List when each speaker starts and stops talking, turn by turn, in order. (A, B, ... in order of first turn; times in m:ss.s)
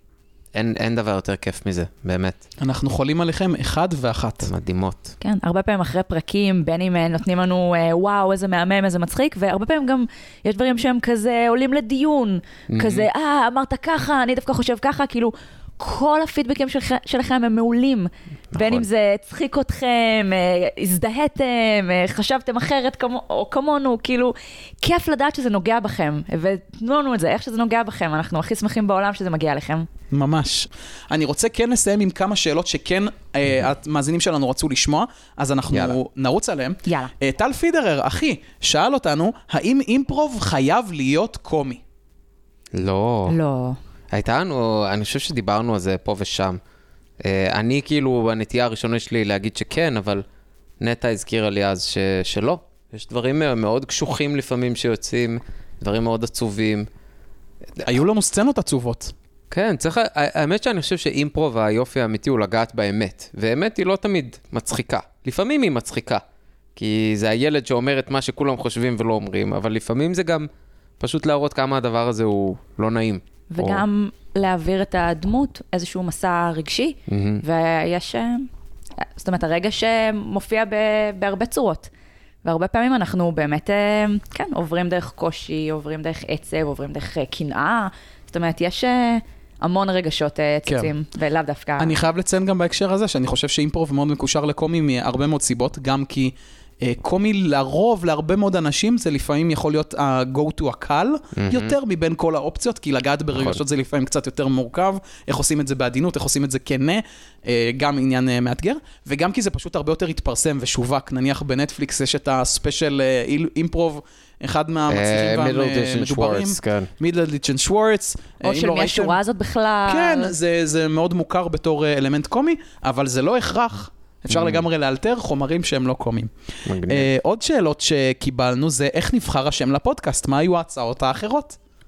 0:00.5-0:02.4 A
0:02.6-0:04.5 B
0:04.4-0:05.1 A
0:05.2-0:29.9 C
0:12.7-0:13.0 A
0:18.5-0:18.8 A
0:30.1-0:41.8 B
0:35.7-0:36.0 A
0:36.9-0:37.1 C
0:42.7-0:43.4 A
0:43.3-0:43.8 C
0:44.1-0:46.6 A
0:47.2-0:50.2 A
0:50.8-0:56.9 A
0:57.8-0:59.1 B
0:59.5-1:06.2 A
1:06.8-1:10.5 A
1:11.0-1:13.8 A
1:13.5-1:18.5 C
1:17.1-1:17.4 A
1:19.1-1:21.9 C
1:22.4-1:32.0 C
1:30.7-1:30.9 B
1:31.8-1:59.2 B
1:41.4-1:41.7 A
1:43.3-1:43.6 A
1:54.9-1:56.9 A
1:58.4-2:00.3 C
1:59.9-2:06.3 B
2:04.3-2:04.6 A
2:06.6-2:07.1 A
2:06.8-2:11.6 B